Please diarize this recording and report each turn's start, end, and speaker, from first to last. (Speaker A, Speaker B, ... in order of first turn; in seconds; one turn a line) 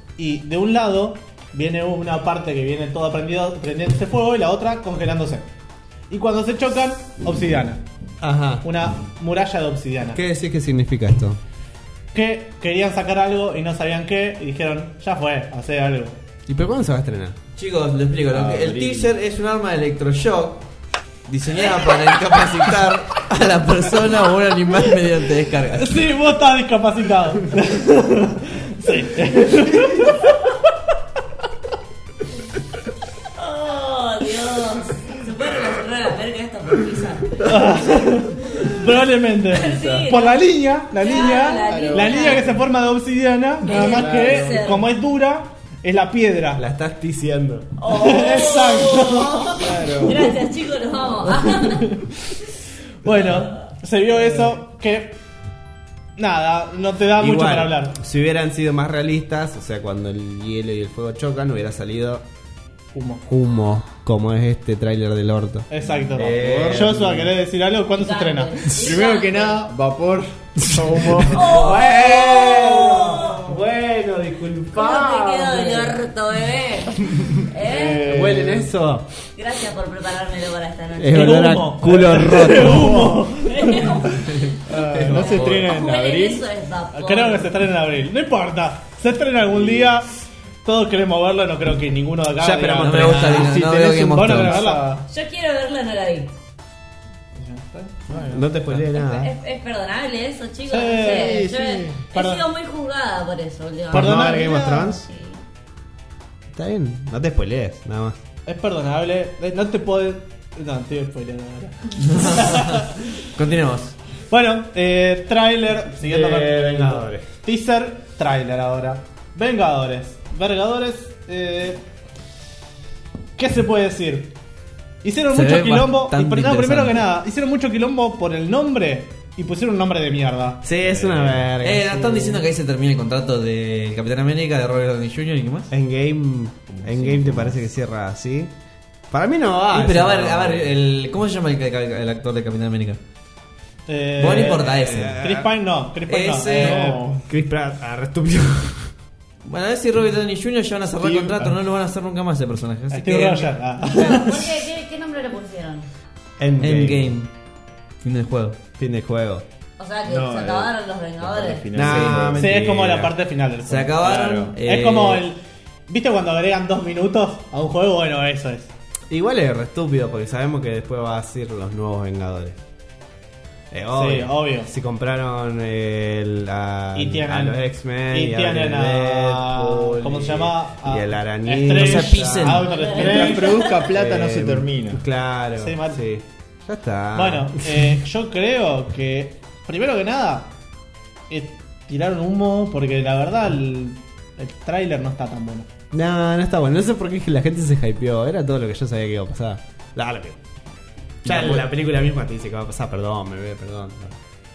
Speaker A: 0.2-5.5
Speaker A: 6.1-7.8
Speaker B: 8.2-8.7
Speaker A: 8.6-10.2
Speaker B: 10.1-11.4
Speaker A: 12.1-16.2
Speaker B: 16.5-17.4
Speaker C: 17.6-20.6
Speaker D: 18.3-19.1
Speaker C: 21.3-26.1
Speaker A: 25.8-30.6
Speaker E: 33.4-37.6
Speaker A: 37.4-46.6
Speaker E: 39.5-42.6
Speaker B: 39.8-40.1
Speaker D: 41.6-42.6
Speaker E: 43.6-44.9
Speaker D: 43.7-44.7
Speaker B: 46.5-47.8
Speaker E: 47.8-52.0
Speaker A: 47.9-49.6
Speaker D: 49.4-50.3
Speaker A: 51.4-52.1
Speaker A: 53.0-55.2
Speaker A: 56.2-58.0
Speaker B: 57.2-62.2
Speaker A: 62.9-63.2
Speaker B: 63.2-67.3
Speaker A: 65.7-68.7
Speaker D: 66.3-66.8
Speaker E: 68.0-69.7
Speaker D: 68.7-71.5
Speaker B: 70.7-76.0
Speaker A: 71.1-73.3
Speaker E: 71.3-73.5
Speaker E: 74.7-78.1
Speaker D: 77.6-78.7
Speaker B: 78.1-79.1
Speaker E: 79.3-81.6
Speaker B: 81.0-83.2
Speaker A: 81.1-84.0
Speaker D: 82.7-83.0
Speaker E: 83.4-84.5
Speaker D: 84.7-86.5
Speaker C: 85.0-85.6
Speaker B: 85.0-85.3
Speaker E: 85.1-87.5
Speaker A: 87.0-90.1
Speaker A: 90.6-93.5
Speaker B: 92.4-94.8
Speaker C: 92.8-94.7
Speaker D: 93.4-94.8
Speaker A: 94.2-95.0
Speaker E: 95.1-96.3
Speaker A: 97.4-98.1
Speaker D: 98.1-98.4
Speaker B: 98.3-99.3
Speaker E: 98.9-104.5
Speaker A: 100.7-101.5
Speaker D: 101.0-102.0
Speaker A: 102.1-102.4
Speaker B: 103.9-105.1
Speaker A: 103.9-105.0
Speaker E: 105.1-105.4
Speaker B: 106.5-108.2
Speaker A: 108.5-113.1
Speaker C: 112.0-114.0
Speaker A: 114.3-121.8
Speaker B: 116.0-117.2
Speaker A: 123.4-124.3
Speaker A: 125.0-130.7
Speaker C: 125.3-127.0
Speaker B: 130.6-132.4
Speaker D: 131.0-131.3
Speaker C: 131.6-135.7
Speaker B: 135.7-138.5
Speaker D: 136.7-137.6
Speaker B: 139.1-140.8
Speaker C: 139.7-143.0
Speaker A: 143.9-147.0
Speaker C: 144.2-145.2
Speaker B: 144.3-145.5
Speaker C: 146.1-146.8
Speaker B: 146.4-148.9
Speaker D: 146.5-147.2
Speaker C: 149.4-153.6
Speaker D: 151.0-151.6
Speaker A: 152.9-154.5
Speaker E: 153.9-155.9
Speaker B: 156.4-157.2
Speaker C: 156.6-157.3
Speaker C: 158.0-158.6
Speaker B: 158.8-159.4
Speaker E: 159.8-161.7
Speaker D: 160.1-162.6
Speaker B: 161.7-163.2
Speaker A: 162.4-168.7
Speaker C: 163.7-165.3
Speaker D: 164.0-164.6
Speaker B: 169.1-172.6
Speaker B: 173.7-182.7
Speaker A: 173.9-174.7
Speaker A: 176.9-183.6
Speaker C: 181.7-182.8
Speaker E: 182.7-183.8
Speaker D: 182.9-185.0
Speaker B: 183.9-188.0
Speaker A: 185.6-186.0
Speaker A: 187.1-190.5
Speaker A: 191.3-195.7
Speaker B: 195.9-200.4
Speaker B: 201.2-204.2